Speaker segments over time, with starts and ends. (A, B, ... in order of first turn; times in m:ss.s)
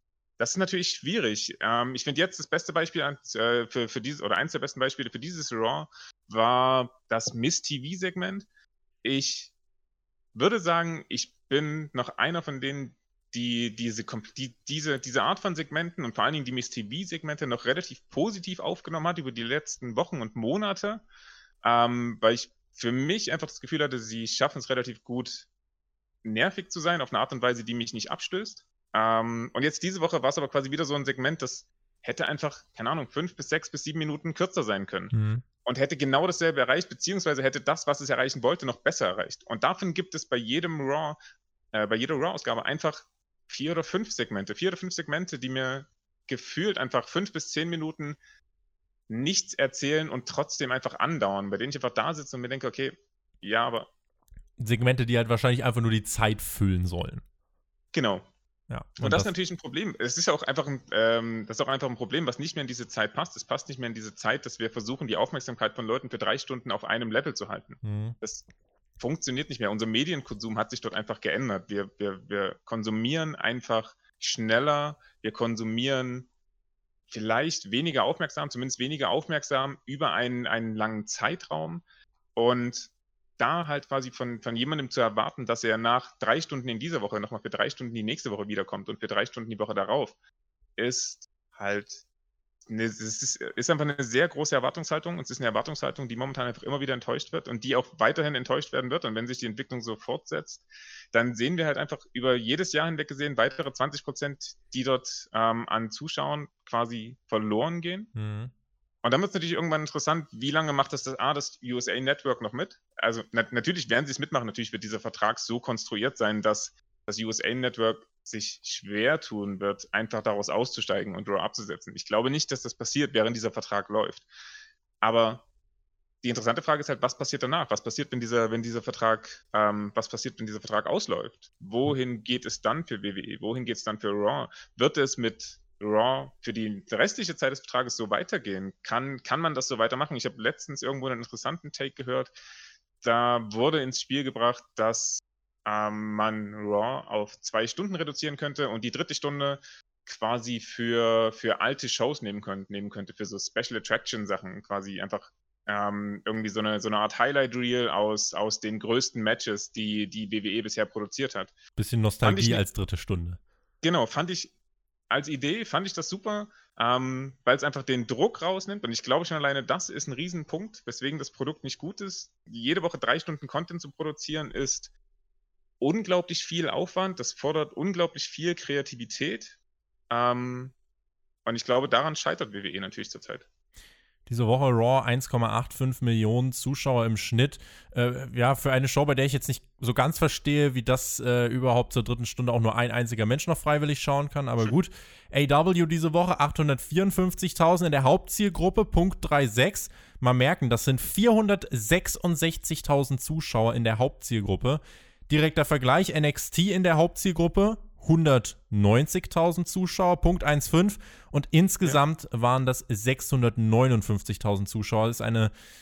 0:00.4-0:08.5 A
0:09.0-0:09.5 A
0:10.4-0:21.0 A
0:21.6-0:25.5 A
0:26.2-0:35.1 A
0:35.1-0:35.4 B
0:35.7-0:41.2 A
0:41.7-0:48.2 A
0:49.1-0:53.9 A
0:54.6-0:57.2 B
0:57.9-0:58.3 A
0:58.7-0:59.3 B
0:59.0-1:08.4 A
1:07.8-1:08.2 B
1:09.0-1:16.3 A
1:17.1-1:21.8 A
1:22.4-1:30.1 A
1:30.8-1:32.0 A
1:32.7-1:48.1 A
1:48.2-1:48.5 B
1:49.0-2:04.2 A
2:05.0-2:05.4 A
2:06.2-2:22.3 A
2:23.0-2:41.5 A
2:41.8-2:43.4 B
2:42.2-2:42.6 A
2:43.8-2:44.5 A
2:45.1-2:54.9 A
2:55.8-2:59.6 A
3:00.1-3:00.7 A
3:01.5-3:03.5 A
3:04.3-3:35.5 B